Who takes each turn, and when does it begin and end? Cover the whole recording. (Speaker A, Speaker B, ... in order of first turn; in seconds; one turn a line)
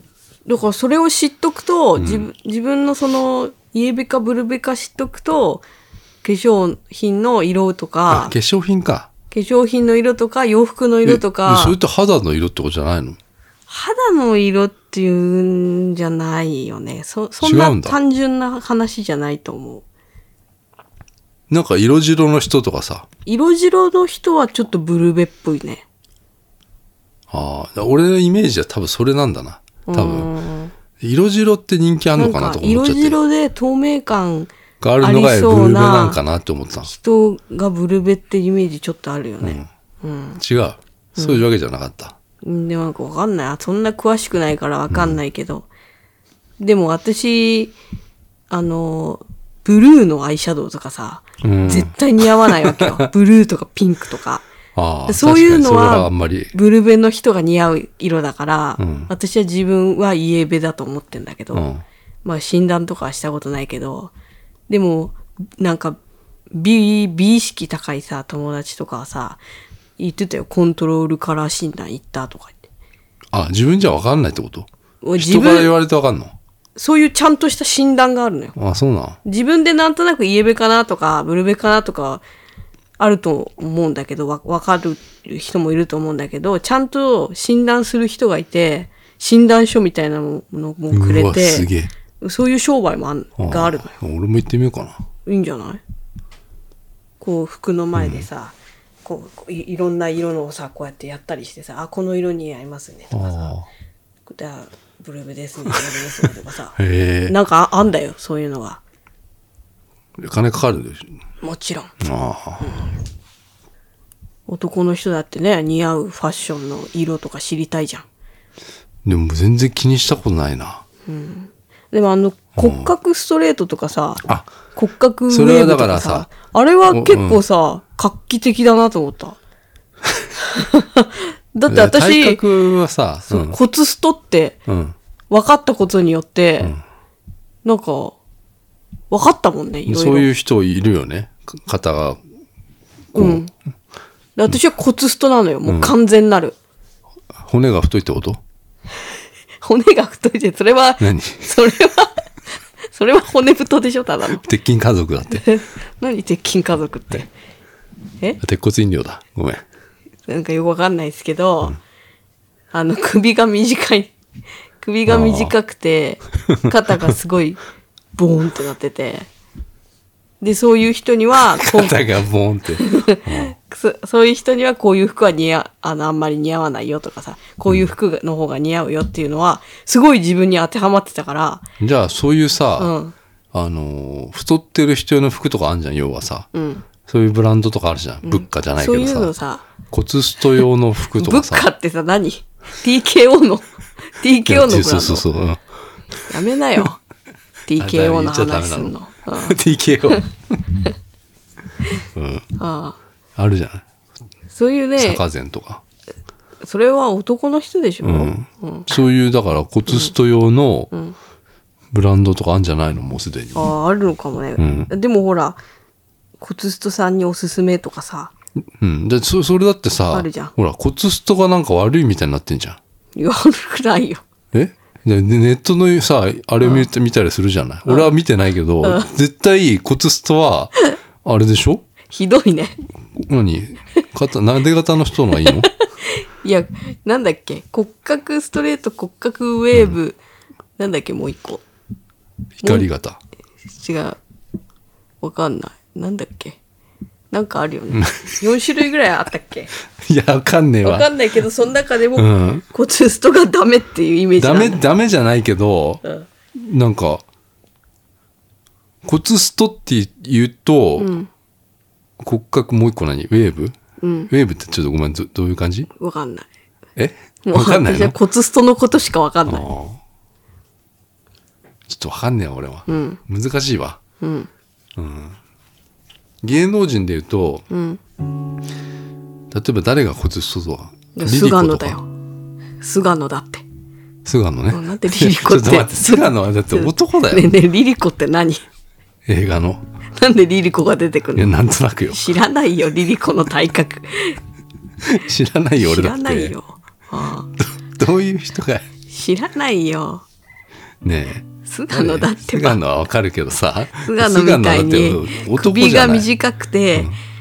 Speaker A: 0.5-5.6
Speaker B: 2.0-2.3
Speaker A: 6.2-8.3
Speaker B: 8.1-9.1
Speaker A: 9.3-11.8
Speaker B: 11.0-13.2
Speaker A: 13.7-19.8
Speaker B: 17.4-18.0
Speaker B: 21.5-23.1
Speaker A: 23.2-25.8
Speaker B: 27.3-30.3
Speaker A: 29.9-30.7
Speaker B: 31.0-33.2
Speaker A: 32.1-34.5
Speaker B: 34.8-36.9
Speaker A: 35.0-36.2
Speaker A: 36.8-40.4
Speaker B: 39.4-39.7
Speaker B: 40.4-42.1
Speaker A: 41.2-41.4
Speaker A: 42.4-45.6
Speaker B: 44.9-45.2
Speaker A: 46.6-47.8
Speaker A: 48.5-54.5
Speaker B: 51.4-53.1
Speaker B: 54.7-56.5
Speaker A: 55.1-61.7
Speaker B: 58.8-59.1
Speaker B: 61.5-61.8
Speaker A: 62.2-64.1
Speaker A: 64.7-66.0
Speaker A: 66.5-69.4
Speaker A: 70.0-72.7
Speaker B: 73.3-76.3
Speaker A: 75.0-75.8
Speaker A: 76.8-78.5
Speaker B: 78.5-79.2
Speaker A: 79.2-82.2
Speaker A: 83.0-91.7
Speaker B: 90.9-91.9
Speaker A: 92.2-94.0
Speaker B: 93.4-95.0
Speaker A: 95.2-95.8
Speaker A: 97.2-103.5
Speaker B: 98.0-98.3
Speaker B: 103.1-103.7
Speaker A: 104.3-106.8
Speaker B: 106.8-107.3
Speaker A: 107.3-108.8
Speaker B: 110.2-111.2
Speaker A: 111.4-111.9
Speaker B: 112.0-112.9
Speaker A: 112.6-112.9
Speaker A: 114.5-118.0
Speaker B: 119.0-120.8
Speaker A: 121.1-129.4
Speaker B: 122.5-122.9
Speaker B: 124.2-124.5
Speaker B: 125.3-126.3
Speaker B: 126.9-127.4
Speaker A: 130.4-132.4
Speaker B: 131.7-133.6
Speaker A: 133.3-134.6
Speaker B: 134.7-134.9
Speaker A: 135.3-136.7
Speaker A: 137.6-138.2
Speaker A: 139.1-140.3
Speaker B: 139.9-142.2
Speaker B: 143.1-143.4
Speaker A: 143.1-143.5
Speaker A: 144.4-146.6
Speaker B: 145.7-145.9
Speaker B: 147.3-148.4
Speaker A: 149.6-152.2
Speaker B: 151.0-151.5
Speaker A: 152.9-154.4
Speaker B: 154.3-155.5
Speaker A: 155.3-157.3
Speaker B: 158.4-159.6
Speaker A: 160.3-161.8
Speaker A: 162.7-164.1
Speaker A: 164.8-167.6
Speaker B: 165.1-165.5
Speaker B: 166.5-167.1
Speaker A: 168.2-169.3
Speaker A: 170.4-172.0
Speaker B: 171.4-173.5
Speaker A: 172.8-181.6
Speaker B: 181.8-182.9
Speaker A: 182.8-183.1
Speaker B: 183.5-186.5
Speaker A: 186.5-186.8
Speaker B: 187.0-189.3
Speaker A: 188.2-189.7
Speaker B: 189.9-191.7
Speaker A: 191.1-195.3
Speaker B: 194.4-195.6
Speaker A: 196.3-197.0
Speaker A: 197.7-199.6
Speaker B: 197.8-200.6
Speaker B: 202.1-202.5
Speaker A: 202.6-203.0
Speaker B: 203.3-203.8
Speaker A: 204.5-205.2
Speaker B: 205.0-205.8
Speaker A: 206.6-208.9
Speaker B: 208.0-210.9
Speaker B: 211.9-213.7
Speaker A: 213.5-215.6
Speaker B: 214.6-214.9
Speaker A: 216.4-218.3
Speaker B: 218.8-222.8
Speaker A: 220.1-220.5
Speaker A: 223.2-224.2
Speaker B: 224.5-231.8
Speaker A: 226.6-226.9
Speaker A: 227.8-228.1
Speaker A: 232.1-232.8
Speaker B: 233.2-235.7
Speaker A: 235.4-240.2
Speaker A: 240.8-241.6
Speaker B: 242.6-243.2
Speaker A: 243.7-244.2
Speaker A: 245.2-246.6
Speaker A: 247.3-249.7
Speaker B: 247.9-248.4
Speaker B: 250.0-251.1
Speaker A: 250.8-254.9
Speaker B: 252.1-252.6
Speaker B: 254.4-256.0
Speaker B: 256.5-257.2
Speaker B: 259.0-261.1
Speaker A: 261.0-261.3
Speaker B: 262.2-263.7
Speaker A: 264.0-264.3
Speaker B: 264.3-265.9
Speaker A: 265.9-266.5
Speaker B: 266.9-268.1
Speaker A: 267.4-269.7
Speaker B: 269.5-270.0
Speaker B: 271.9-274.0
Speaker A: 272.9-273.2
Speaker A: 274.2-274.5
Speaker B: 274.9-275.4
Speaker B: 276.4-277.6
Speaker A: 277.7-278.0
Speaker B: 279.5-282.0
Speaker A: 281.1-282.1
Speaker A: 282.8-283.6
Speaker B: 284.2-287.5
Speaker A: 284.7-288.6
Speaker B: 289.2-289.8
Speaker A: 290.2-291.5
Speaker B: 291.4-292.2
Speaker A: 292.1-294.4
Speaker B: 295.0-296.5
Speaker A: 295.8-297.5
Speaker B: 297.6-298.9
Speaker A: 299.1-300.2
Speaker B: 301.0-306.3
Speaker A: 301.6-302.8
Speaker A: 304.0-307.1